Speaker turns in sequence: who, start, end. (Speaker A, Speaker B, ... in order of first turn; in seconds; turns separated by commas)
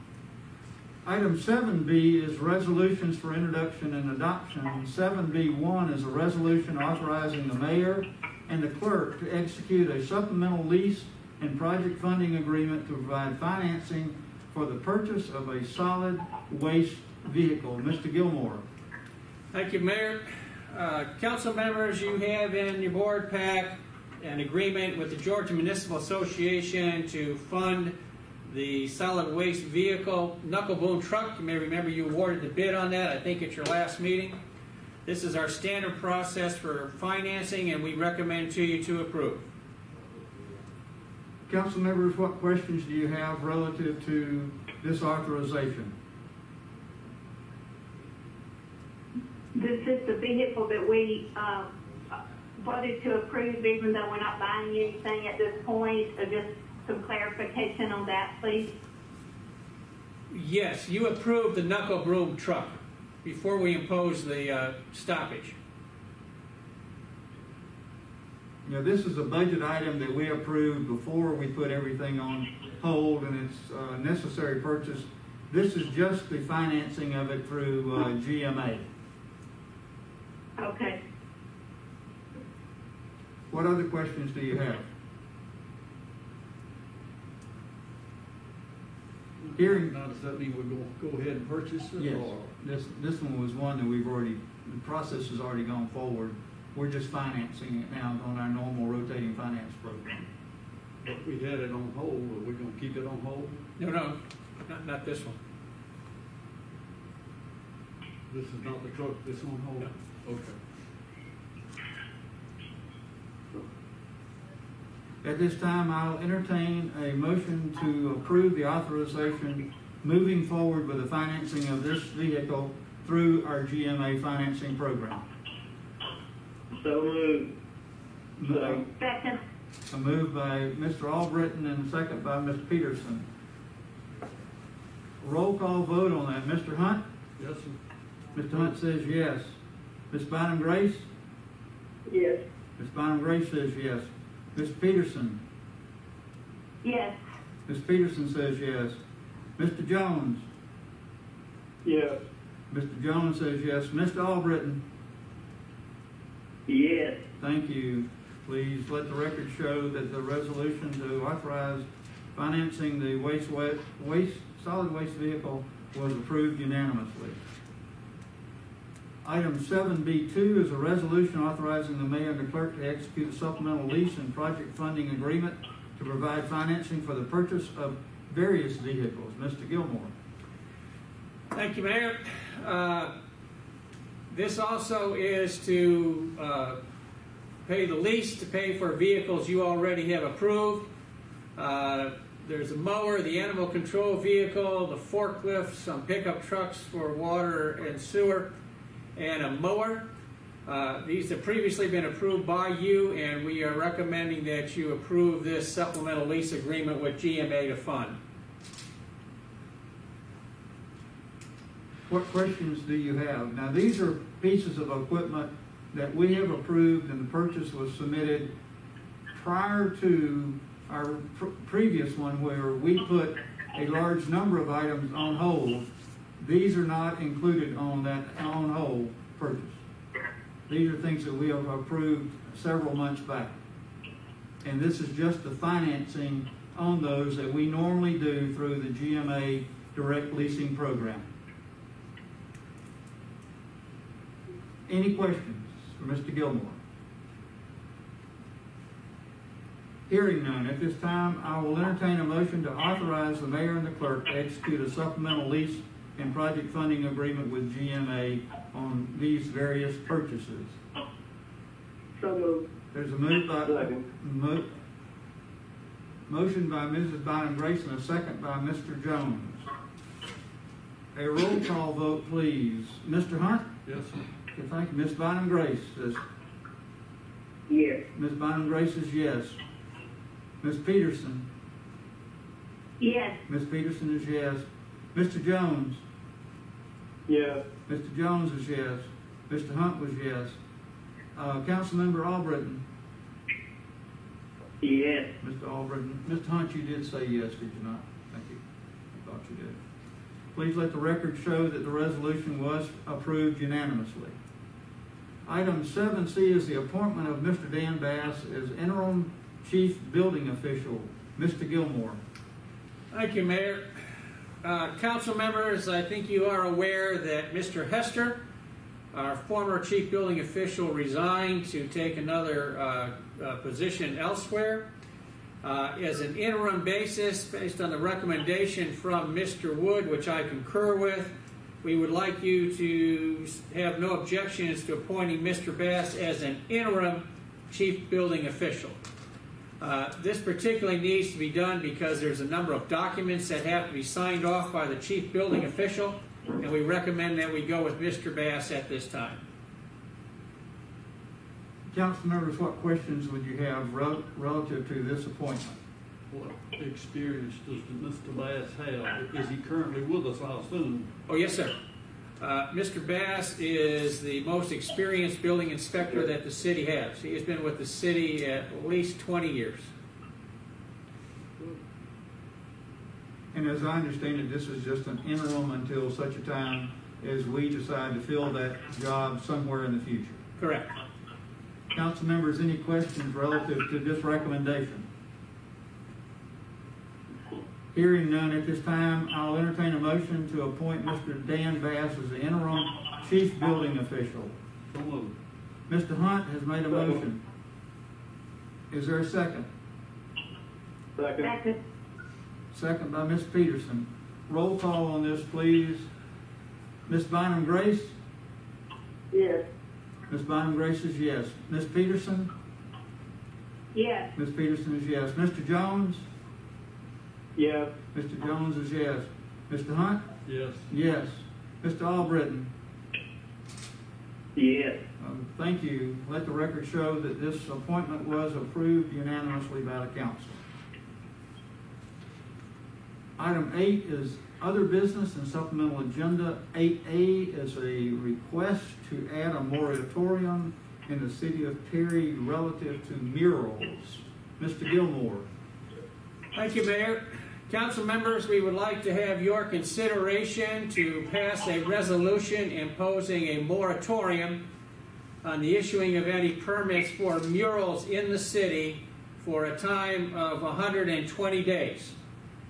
Speaker A: 1.1-18.6, Speaker B: 19.5-27.9, Speaker B: 28.5-34.4, Speaker B: 35.1-39.5, Speaker A: 41.5-45.9, Speaker C: 49.5-51.7, Speaker C: 52.6-58.7, Speaker B: 60.3-65.6, Speaker A: 68.7-78.9, Speaker C: 80.6-81.0, Speaker A: 83.5-84.9, Speaker D: 89.4-92.5, Speaker A: 89.6-90.0, Speaker A: 92.0-100.3, Speaker D: 101.0-103.6, Speaker B: 103.8-105.4, Speaker D: 108.3-110.6, Speaker A: 115.2-125.2, Speaker E: 126.8-127.5, Speaker A: 128.4-128.8, Speaker E: 128.5-128.8, Speaker C: 129.0-129.4, Speaker A: 129.9-133.3, Speaker A: 135.2-137.0, Speaker D: 137.4-137.8, Speaker A: 138.3-139.6, Speaker D: 138.5-138.7, Speaker A: 140.1-141.1, Speaker E: 142.1-142.4, Speaker A: 142.8-145.4, Speaker C: 146.8-147.2, Speaker A: 147.7-149.0, Speaker A: 149.6-150.4, Speaker E: 151.8-152.2, Speaker A: 152.7-154.8, Speaker E: 156.7-157.2, Speaker A: 157.4-167.4, Speaker A: 169.2-180.1, Speaker B: 181.5-183.1, Speaker B: 184.3-186.8, Speaker B: 187.7-190.9, Speaker B: 191.6-198.5, Speaker B: 199.2-200.1, Speaker B: 200.7-208.2, Speaker A: 212.1-218.5, Speaker A: 219.3-225.9, Speaker A: 226.4-229.8, Speaker A: 230.7-233.6, Speaker A: 234.6-241.3, Speaker A: 244.9-246.8, Speaker A: 250.1-260.8, Speaker E: 262.2-262.6, Speaker A: 262.9-264.7, Speaker E: 263.6-264.0, Speaker A: 266.3-269.6, Speaker A: 271.1-273.7, Speaker D: 273.9-274.2, Speaker A: 274.5-276.2, Speaker E: 277.7-278.0, Speaker A: 278.1-279.6, Speaker A: 280.6-281.5, Speaker C: 283.0-283.4, Speaker A: 283.5-286.0, Speaker E: 287.3-287.6, Speaker A: 287.9-290.6, Speaker A: 291.4-292.8, Speaker E: 294.8-295.3, Speaker A: 295.4-298.6, Speaker A: 299.2-299.8, Speaker A: 300.5-304.4, Speaker A: 305.5-312.2, Speaker B: 313.1-313.9, Speaker B: 314.6-318.4, Speaker B: 319.1-324.9, Speaker B: 325.6-339.0, Speaker B: 339.8-349.4, Speaker A: 351.9-355.8, Speaker D: 356.3-361.1, Speaker B: 361.3-361.7, Speaker B: 362.4-369.9, Speaker A: 373.5-380.4, Speaker B: 380.6-380.9, Speaker A: 381.9-385.1, Speaker A: 387.9-394.6, Speaker D: 394.9-395.3, Speaker A: 395.9-397.4, Speaker A: 398.9-399.7, Speaker E: 401.2-401.5, Speaker C: 401.4-401.8, Speaker A: 402.7-406.1, Speaker A: 407.1-408.1, Speaker E: 409.3-409.6, Speaker A: 410.3-412.5, Speaker C: 413.9-414.3, Speaker A: 414.4-416.2, Speaker E: 417.6-417.9, Speaker A: 418.1-420.2, Speaker D: 420.5-420.9, Speaker A: 420.9-422.7, Speaker E: 424.6-425.0, Speaker A: 425.2-430.6, Speaker A: 433.4-445.5, Speaker B: 446.6-454.6, Speaker B: 455.4-462.2